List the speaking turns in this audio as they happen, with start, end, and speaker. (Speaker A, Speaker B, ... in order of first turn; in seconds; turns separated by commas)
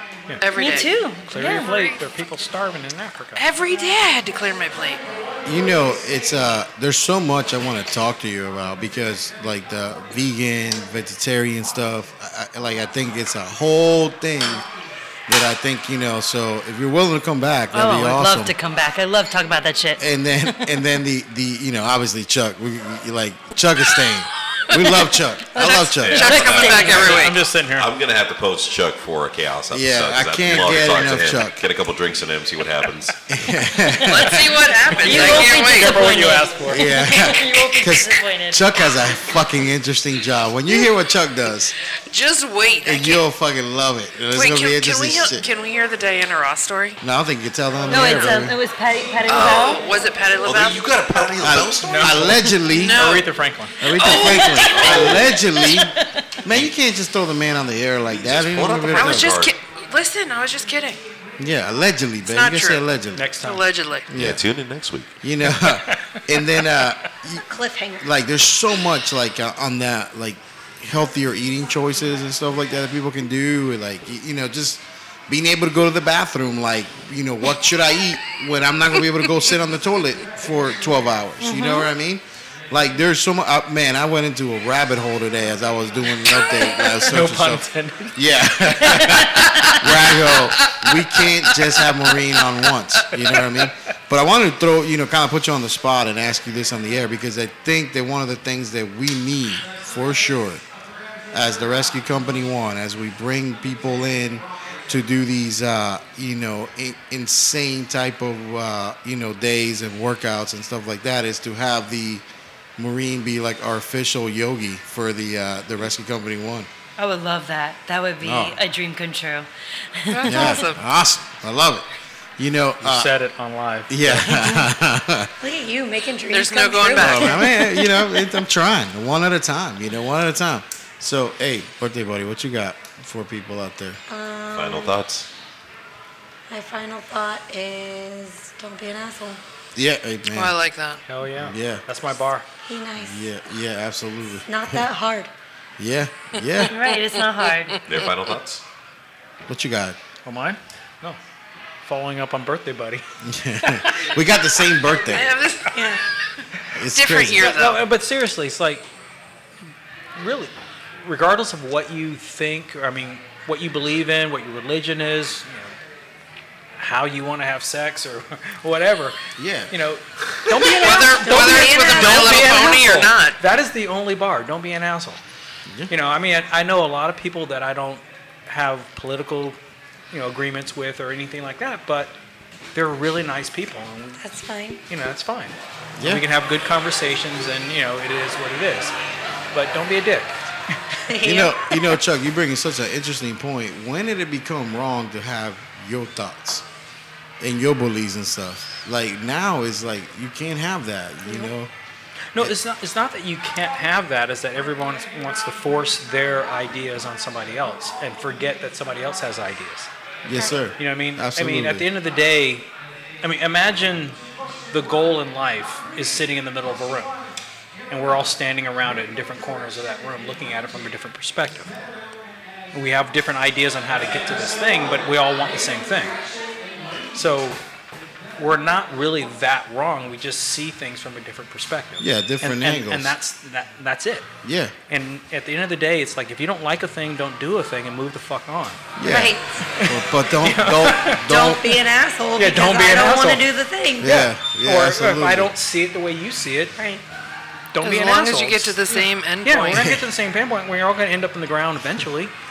Speaker A: 0.3-3.5, Speaker B: 0.4-0.9, Speaker C: 0.5-1.7, Speaker B: 3.4-5.0, Speaker D: 5.5-14.7, Speaker D: 15.3-18.5, Speaker C: 17.7-20.7, Speaker D: 20.0-26.4, Speaker C: 25.5-27.0, Speaker E: 26.0-33.2, Speaker B: 26.1-27.4, Speaker A: 26.7-27.9, Speaker D: 29.7-31.6, Speaker D: 33.3-34.7, Speaker B: 33.9-36.0, Speaker A: 35.0-36.9, Speaker C: 35.0-38.7, Speaker D: 36.7-41.7, Speaker B: 42.1-43.2, Speaker D: 42.8-45.5, Speaker B: 44.3-47.0, Speaker D: 47.0-48.6, Speaker C: 47.9-49.8, Speaker B: 49.2-51.2, Speaker E: 50.4-52.5, Speaker D: 51.4-53.0, Speaker A: 51.8-53.8, Speaker B: 52.7-53.3, Speaker D: 53.8-59.4, Speaker B: 53.8-55.4, Speaker E: 54.0-55.5, Speaker C: 55.6-56.3, Speaker E: 58.1-59.5, Speaker B: 58.9-61.0, Speaker D: 61.4-63.3, Speaker B: 62.3-62.8, Speaker A: 63.1-63.7, Speaker B: 63.4-64.1, Speaker D: 64.1-64.4, Speaker E: 64.1-65.2, Speaker D: 65.2-67.5, Speaker A: 65.7-66.2, Speaker F: 67.4-68.1, Speaker D: 68.0-100.6, Speaker C: 81.4-81.9, Speaker A: 87.1-90.7, Speaker A: 93.1-93.5, Speaker D: 101.3-112.2, Speaker D: 112.8-116.7, Speaker C: 117.0-120.6, Speaker D: 118.2-118.6, Speaker B: 120.1-120.8, Speaker D: 120.2-121.8, Speaker D: 122.4-123.1, Speaker A: 122.8-124.4, Speaker D: 123.9-125.3, Speaker F: 125.4-127.5, Speaker B: 126.3-127.4, Speaker D: 127.0-134.0, Speaker F: 134.1-135.0, Speaker E: 134.5-135.3, Speaker F: 136.5-139.4, Speaker D: 139.8-140.6, Speaker B: 140.3-141.0, Speaker A: 141.1-142.5, Speaker D: 141.4-141.8, Speaker F: 142.7-143.3, Speaker D: 143.0-144.8, Speaker F: 144.5-145.3, Speaker D: 145.8-146.7, Speaker C: 146.7-147.8, Speaker E: 147.9-148.6, Speaker D: 149.5-150.0, Speaker A: 150.2-151.2, Speaker A: 151.8-153.0, Speaker D: 153.2-155.3, Speaker A: 153.9-154.2, Speaker B: 154.8-155.7, Speaker F: 155.7-156.0, Speaker D: 156.8-157.6, Speaker B: 156.9-157.8, Speaker A: 157.4-158.8, Speaker A: 160.2-160.5, Speaker A: 161.0-165.7, Speaker A: 166.8-169.2, Speaker D: 169.4-169.7, Speaker A: 169.7-175.2, Speaker F: 170.6-172.8, Speaker B: 170.7-173.4, Speaker A: 175.9-179.6, Speaker A: 180.1-182.2, Speaker A: 182.7-184.2, Speaker F: 184.2-184.8, Speaker A: 184.9-188.9, Speaker D: 186.0-186.2, Speaker A: 189.5-190.8, Speaker F: 191.1-192.0, Speaker D: 191.2-196.7, Speaker D: 197.4-201.7, Speaker A: 202.3-209.9, Speaker D: 210.2-211.9, Speaker A: 210.8-212.7, Speaker A: 213.2-214.2, Speaker A: 214.7-217.1, Speaker A: 217.9-221.7, Speaker A: 222.7-226.2, Speaker A: 227.1-227.6, Speaker A: 228.4-234.3, Speaker D: 232.0-233.1, Speaker D: 234.4-234.7, Speaker A: 234.9-238.8, Speaker D: 239.0-241.7, Speaker F: 239.1-239.6, Speaker A: 239.8-241.2, Speaker F: 241.0-244.3, Speaker A: 242.4-243.5, Speaker D: 244.0-245.5, Speaker A: 244.6-246.7, Speaker F: 246.8-247.0, Speaker A: 247.7-248.8, Speaker B: 247.8-249.9, Speaker A: 249.4-252.3, Speaker D: 249.7-250.0